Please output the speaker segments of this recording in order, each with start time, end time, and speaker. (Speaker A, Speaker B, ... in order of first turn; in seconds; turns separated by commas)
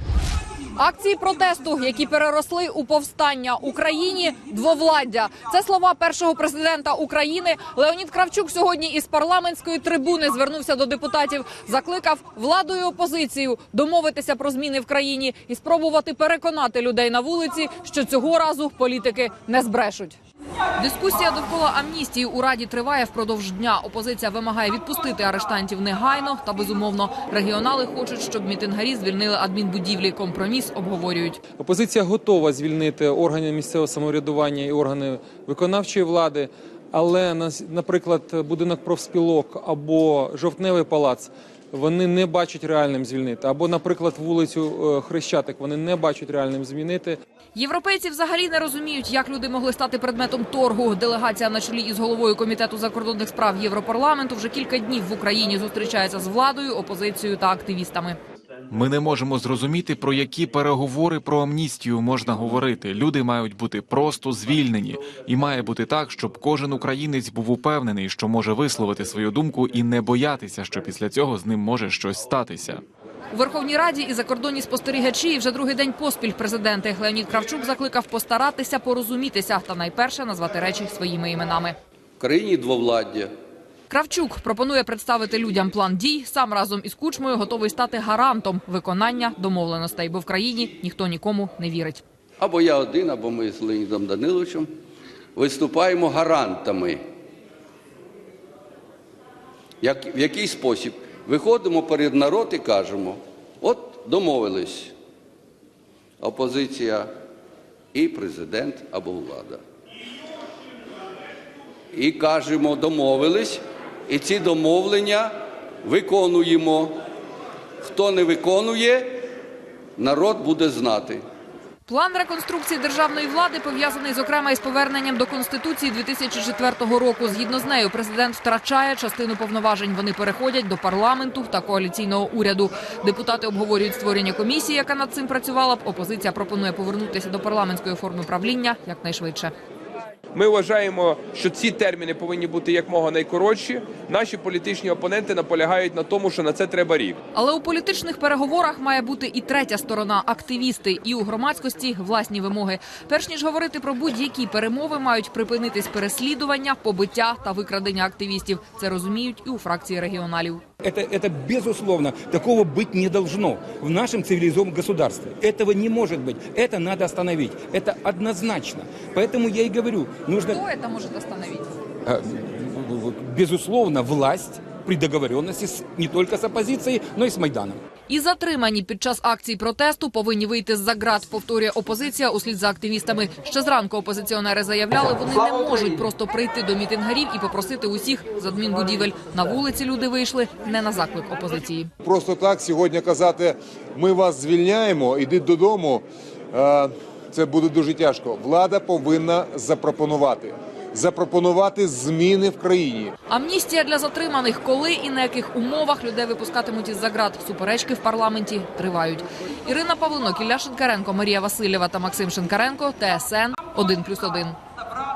Speaker A: 0.8-20.2, Speaker A: 20.8-31.4, Speaker B: 31.6-47.2, Speaker A: 47.5-58.2, Speaker C: 58.7-72.8, Speaker A: 73.3-81.8, Speaker D: 82.2-83.3, Speaker A: 83.9-92.0, Speaker D: 92.4-94.7, Speaker D: 95.4-97.0, Speaker D: 99.8-104.9, Speaker D: 106.2-107.1, Speaker D: 107.9-109.6, Speaker D: 111.9-115.3, Speaker D: 115.8-116.9, Speaker D: 117.8-119.2, Speaker D: 120.0-121.2, Speaker A: 121.8-139.5, Speaker E: 140.3-147.2, Speaker A: 147.3-160.6, Speaker F: 160.8-170.6, Speaker A: 170.5-171.7, Speaker F: 172.1-177.8, Speaker A: 178.1-191.9, Speaker G: 192.0-203.1, Speaker A: 203.3-214.6